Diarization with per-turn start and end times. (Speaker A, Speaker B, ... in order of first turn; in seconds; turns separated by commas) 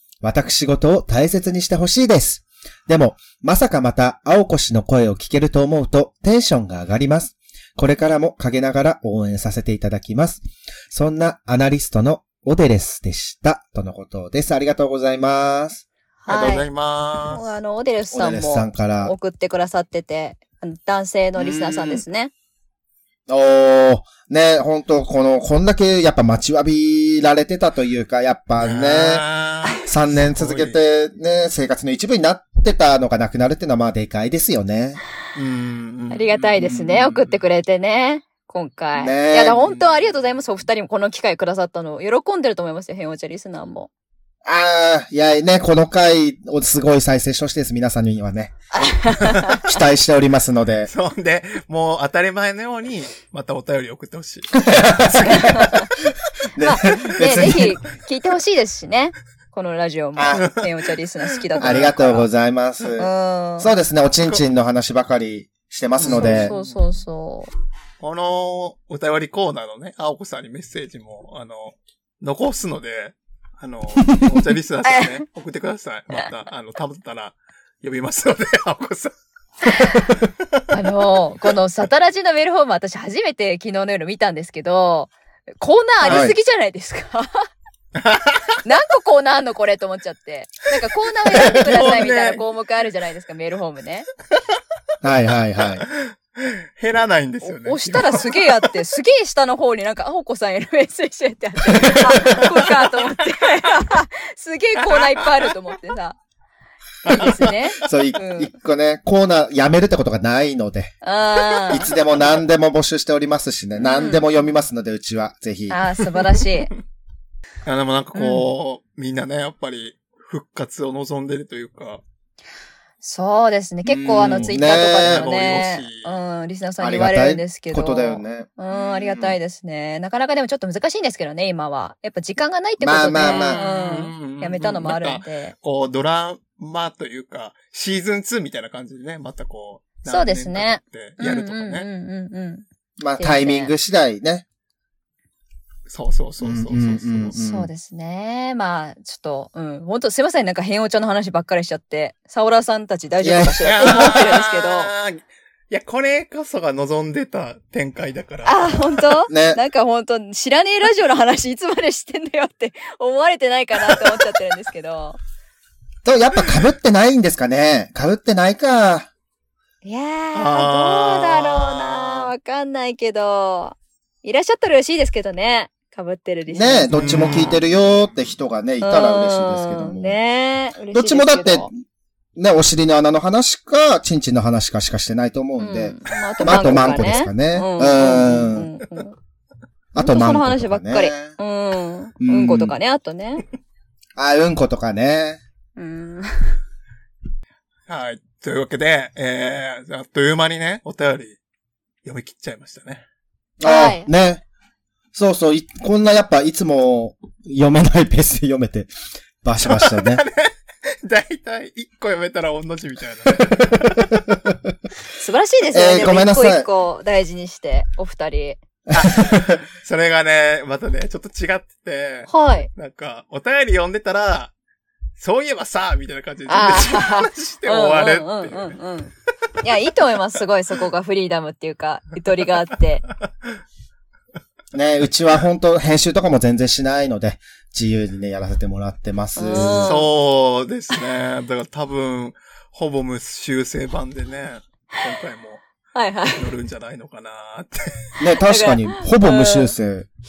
Speaker A: 0.2-15.8, Speaker B: 16.2-16.7, Speaker C: 16.3-17.4, Speaker B: 17.3-22.3, Speaker A: 18.1-19.1, Speaker A: 21.4-22.0, Speaker A: 23.3-29.2, Speaker C: 28.6-30.8, Speaker A: 29.9-35.0, Speaker C: 35.4-36.3, Speaker B: 36.1-43.9, Speaker A: 39.0-39.8, Speaker A: 44.4-48.5, Speaker B: 48.7-49.7, Speaker A: 49.6-50.9, Speaker C: 50.9-55.6, Speaker A: 54.6-55.8, Speaker B: 55.3-55.9, Speaker A: 56.5-57.8, Speaker B: 56.6-62.3, Speaker A: 60.1-60.4, Speaker C: 60.4-60.7, Speaker C: 61.5-61.9, Speaker A: 61.6-66.5, Speaker B: 63.0-63.7, Speaker C: 66.0-66.8, Speaker B: 66.0-67.5, Speaker C: 68.0-79.1, Speaker B: 74.8-75.2, Speaker B: 79.7-80.1, Speaker B: 80.7-87.5, Speaker A: 86.0-86.4, Speaker C: 88.0-88.5, Speaker B: 88.6-94.1, Speaker C: 91.4-92.4, Speaker A: 95.0-95.9, Speaker C: 95.9-98.3, Speaker B: 97.4-106.2, Speaker A: 101.7-102.4, Speaker C: 104.9-105.5, Speaker C: 107.0-107.5, Speaker B: 107.0-108.5, Speaker A: 107.8-111.0, Speaker B: 111.0-111.9, Speaker A: 111.7-115.8, Speaker B: 113.8-114.2, Speaker B: 115.7-116.7, Speaker C: 117.6-122.0, Speaker B: 118.1-118.5, Speaker B: 123.0-135.5, Speaker A: 123.8-125.2, Speaker C: 125.0-126.2, Speaker A: 126.8-129.4, Speaker A: 132.8-133.6, Speaker C: 133.2-141.9, Speaker B: 140.1-142.7, Speaker A: 143.0-144.4, Speaker B: 143.2-143.7, Speaker C: 145.9-147.4, Speaker A: 146.4-147.7, Speaker B: 147.3-154.9, Speaker A: 153.2-154.2, Speaker C: 153.6-159.1, Speaker B: 158.4-165.2, Speaker A: 159.3-159.6, Speaker A: 166.0-169.1, Speaker B: 169.8-176.9, Speaker C: 170.3-172.3, Speaker A: 176.5-180.2, Speaker C: 176.9-177.6, Speaker B: 178.8-181.7, Speaker A: 180.9-181.7, Speaker A: 182.4-188.7, Speaker B: 185.6-189.2, Speaker A: 189.9-191.3, Speaker B: 189.9-193.4, Speaker A: 192.2-192.7, Speaker A: 194.2-195.4, Speaker B: 195.8-196.6, Speaker C: 197.9-201.4, Speaker C: 202.0-203.0, Speaker A: 203.6-204.4, Speaker B: 203.6-204.1, Speaker A: 205.1-210.2, Speaker C: 209.6-214.2, Speaker A: 214.0-214.5, Speaker B: 215.2-218.6, Speaker A: 215.7-216.7, Speaker A: 218.9-219.6, Speaker C: 218.9-224.5, Speaker B: 222.3-222.7, Speaker C: 225.2-228.7, Speaker B: 226.5-233.1, Speaker A: 234.7-239.9, Speaker B: 239.4-240.1, Speaker C: 239.8-245.6, Speaker B: 245.9-246.5, Speaker C: 246.3-248.1, Speaker A: 248.2-250.1, Speaker B: 248.4-249.8